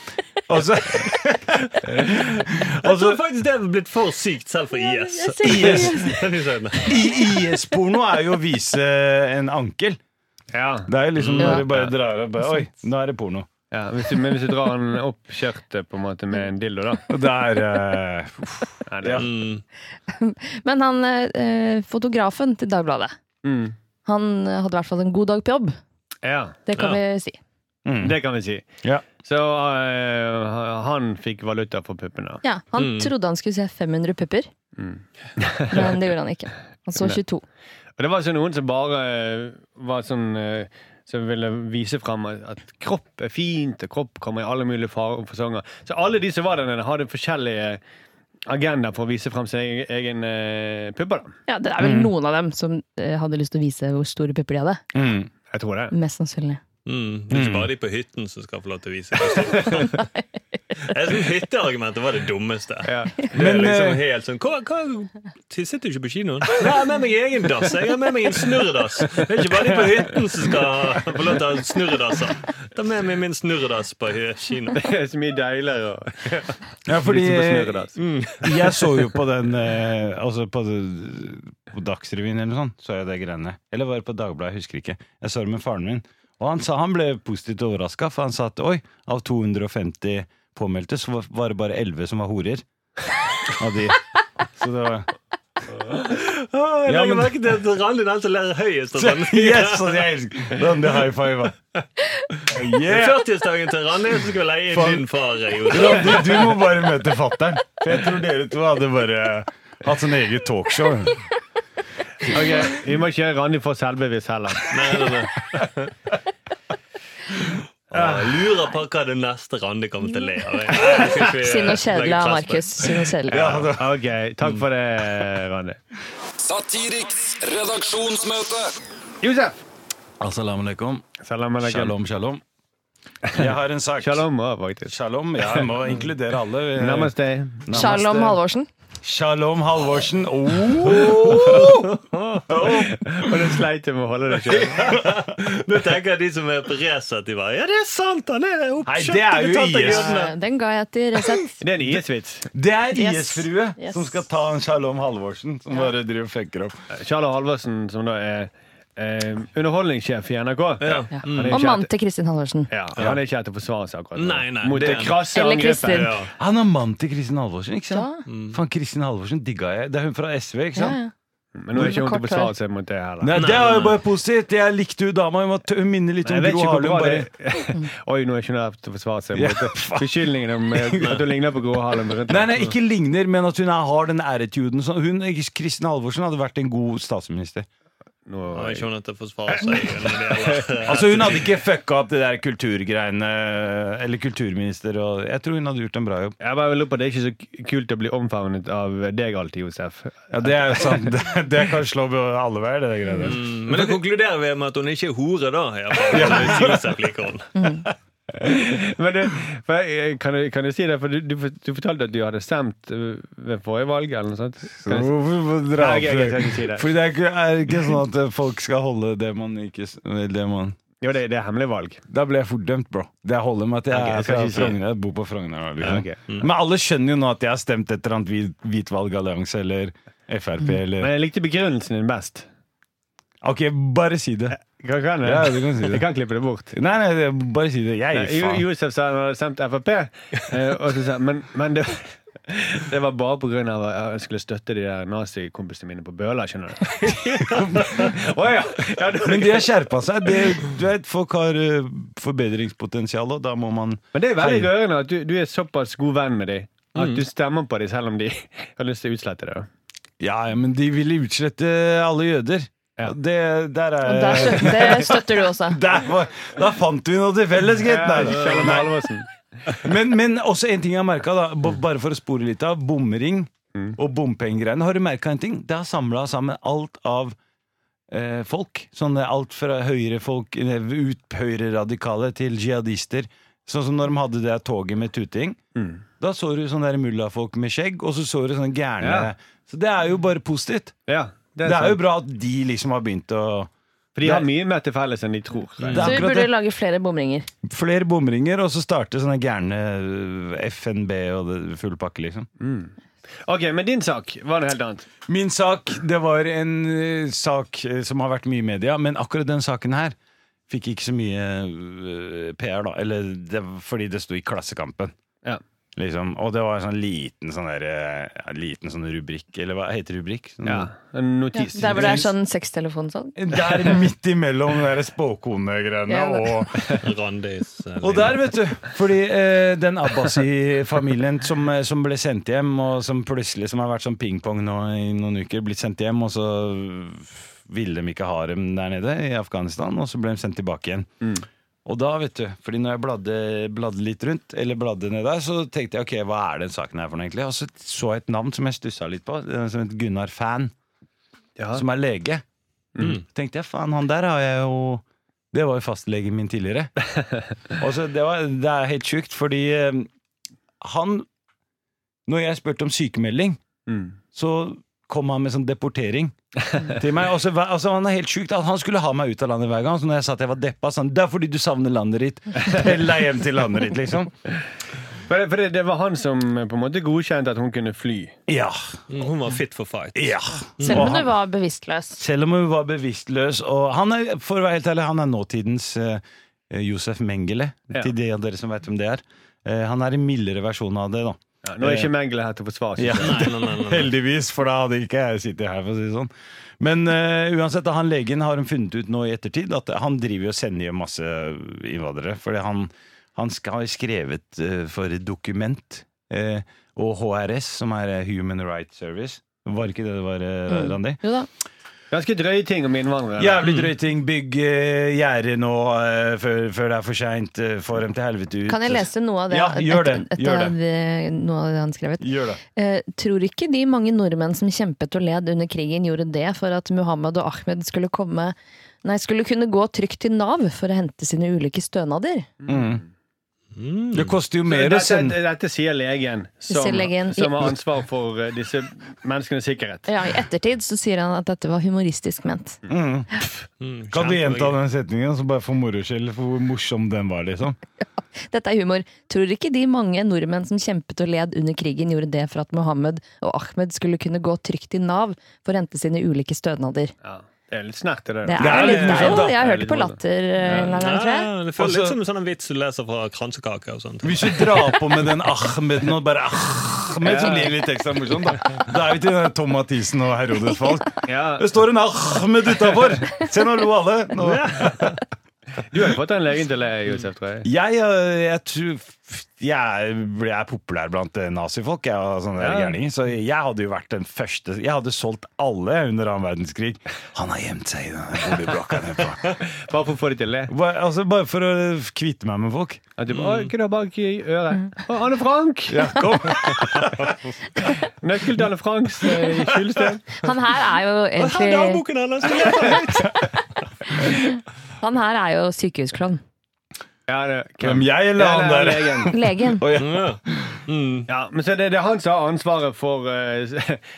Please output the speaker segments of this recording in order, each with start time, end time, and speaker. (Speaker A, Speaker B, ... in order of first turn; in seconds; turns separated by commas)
Speaker A: 0.5-3.2, Speaker B: 1.6-7.1, Speaker C: 4.8-6.2, Speaker A: 5.4-6.1, Speaker A: 6.8-10.0, Speaker D: 10.5-11.9, Speaker A: 10.9-13.5, Speaker B: 11.2-11.6, Speaker C: 11.4-11.7, Speaker D: 13.7-17.1, Speaker A: 17.1-19.3, Speaker D: 18.9-19.3, Speaker B: 19.2-19.6, Speaker C: 20.1-23.1, Speaker D: 23.4-23.8, Speaker C: 24.1-25.8, Speaker D: 26.2-26.6, Speaker C: 26.7-27.4, Speaker A: 27.9-28.2, Speaker D: 28.0-28.6, Speaker D: 29.2-32.4, Speaker C: 32.4-34.5, Speaker B: 32.8-33.1, Speaker D: 34.8-36.0, Speaker C: 35.7-37.4, Speaker D: 38.0-47.8, Speaker D: 48.5-51.4, Speaker C: 51.5-54.8, Speaker A: 51.8-52.1, Speaker A: 54.9-55.3, Speaker D: 55.5-56.0, Speaker C: 55.9-56.6, Speaker B: 56.9-60.0, Speaker A: 57.3-57.7, Speaker B: 60.8-74.8, Speaker D: 62.9-63.3, Speaker A: 63.3-64.0, Speaker D: 74.7-78.0, Speaker A: 76.9-77.9, Speaker B: 78.0-78.9, Speaker A: 78.4-92.6, Speaker A: 93.5-95.1, Speaker B: 96.0-100.0, Speaker A: 96.9-97.4, Speaker A: 99.0-101.6, Speaker A: 102.5-103.2, Speaker B: 102.8-106.6, Speaker A: 104.7-105.0, Speaker A: 105.7-111.2, Speaker D: 112.2-115.1, Speaker B: 114.7-115.9, Speaker B: 117.9-123.0, Speaker D: 117.9-118.5, Speaker C: 120.8-123.6, Speaker A: 123.3-124.0, Speaker D: 123.3-125.8, Speaker E: 126.4-128.7, Speaker D: 129.2-129.6, Speaker A: 130.2-131.1, Speaker D: 131.2-131.9, Speaker A: 131.6-132.4, Speaker A: 133.3-134.2, Speaker D: 134.0-134.9, Speaker A: 134.9-137.1, Speaker D: 136.8-138.3, Speaker A: 137.7-138.3, Speaker C: 137.7-138.7, Speaker A: 139.0-142.0, Speaker B: 141.5-142.4, Speaker A: 142.5-143.4, Speaker D: 142.6-145.0, Speaker A: 144.8-145.3, Speaker B: 144.8-150.3, Speaker A: 148.8-150.2, Speaker C: 149.8-151.6, Speaker D: 151.6-152.5, Speaker A: 152.5-156.8, Speaker C: 152.9-154.1, Speaker D: 156.9-161.9, Speaker B: 160.8-161.6, Speaker C: 161.1-162.7, Speaker D: 162.7-166.2, Speaker B: 164.2-165.3, Speaker C: 165.2-166.2, Speaker B: 165.9-166.3, Speaker A: 166.4-171.0, Speaker C: 167.9-168.2, Speaker B: 168.3-168.6, Speaker C: 170.8-171.1, Speaker D: 171.6-173.4, Speaker C: 171.7-172.5, Speaker A: 173.2-177.3, Speaker B: 173.3-174.0, Speaker D: 176.2-182.7, Speaker A: 179.3-181.2, Speaker A: 182.3-187.7, Speaker D: 188.3-188.9, Speaker B: 188.5-191.5, Speaker D: 189.5-190.9, Speaker A: 190.8-196.4, Speaker D: 196.4-201.1, Speaker A: 200.3-204.0, Speaker B: 203.2-207.6, Speaker A: 206.1-206.9, Speaker C: 207.6-207.8, Speaker D: 208.3-215.1, Speaker A: 214.8-220.8, Speaker D: 215.8-216.9, Speaker D: 221.0-222.0, Speaker A: 222.1-231.1, Speaker D: 223.9-224.8, Speaker D: 225.8-226.2, Speaker D: 231.0-232.5, Speaker A: 233.4-234.6, Speaker D: 234.6-236.8, Speaker A: 235.2-236.1, Speaker A: 236.7-238.6, Speaker D: 238.1-249.8, Speaker B: 247.0-248.2, Speaker A: 247.5-248.2, Speaker A: 249.2-254.7, Speaker D: 254.1-259.7, Speaker B: 256.9-257.2, Speaker A: 260.2-269.0, Speaker C: 264.0-265.8, Speaker D: 267.8-269.8, Speaker A: 269.7-277.4, Speaker A: 278.1-285.6, Speaker D: 285.8-286.0, Speaker A: 286.2-290.9, Speaker D: 289.0-289.3, Speaker D: 291.1-292.0, Speaker A: 291.6-293.7, Speaker D: 294.2-296.1, Speaker A: 294.2-294.5, Speaker B: 295.8-296.1, Speaker A: 295.9-296.5, Speaker C: 296.0-297.5, Speaker A: 297.6-302.5, Speaker D: 302.6-305.1, Speaker A: 305.3-310.2, Speaker A: 310.7-315.1, Speaker A: 316.0-320.9, Speaker D: 320.6-322.3, Speaker C: 321.6-324.0, Speaker A: 321.8-322.3, Speaker A: 323.4-326.9, Speaker C: 326.1-326.6, Speaker B: 327.0-328.5, Speaker A: 328.0-341.1, Speaker A: 341.9-350.7, Speaker D: 351.6-351.8, Speaker A: 351.7-352.4, Speaker D: 353.0-353.2, Speaker A: 353.0-356.9, Speaker A: 357.8-360.1, Speaker A: 360.8-361.3, Speaker A: 362.3-363.6, Speaker D: 363.9-364.2, Speaker A: 364.3-366.3, Speaker D: 366.7-367.0, Speaker A: 366.9-374.3, Speaker D: 375.3-378.4, Speaker A: 378.5-379.0, Speaker B: 379.1-381.1, Speaker A: 380.1-381.3, Speaker C: 380.8-382.2, Speaker A: 382.2-392.1, Speaker D: 391.6-393.5, Speaker A: 393.0-411.2, Speaker B: 393.2-394.1, Speaker C: 410.7-411.5, Speaker D: 412.1-413.6, Speaker A: 413.4-420.8, Speaker B: 413.6-413.9, Speaker C: 418.7-432.5, Speaker A: 422.2-422.6, Speaker D: 432.6-433.1, Speaker A: 432.7-433.0, Speaker B: 433.8-434.4, Speaker A: 434.1-435.4, Speaker D: 434.7-440.1, Speaker C: 436.7-437.7, Speaker C: 440.1-442.8, Speaker A: 442.9-443.4, Speaker B: 443.8-444.8, Speaker A: 444.1-447.8, Speaker C: 448.4-457.1, Speaker D: 457.2-460.2, Speaker C: 458.4-461.5, Speaker A: 458.6-459.6, Speaker B: 458.6-459.4, Speaker B: 460.7-464.9, Speaker A: 461.8-462.2, Speaker A: 464.2-475.1, Speaker D: 467.2-467.7, Speaker D: 471.3-471.7, Speaker B: 474.4-475.2, Speaker D: 475.8-477.7, Speaker A: 477.6-489.6, Speaker D: 482.6-482.9, Speaker D: 489.7-490.7, Speaker A: 490.7-493.0, Speaker D: 493.2-496.2, Speaker B: 493.3-493.7, Speaker A: 495.9-497.3, Speaker B: 497.0-497.3, Speaker D: 497.8-500.4, Speaker C: 500.4-502.0, Speaker B: 501.4-503.5, Speaker C: 504.1-506.4, Speaker D: 507.3-509.3, Speaker A: 507.8-510.8, Speaker C: 509.3-509.8, Speaker B: 509.9-511.3, Speaker D: 511.3-514.0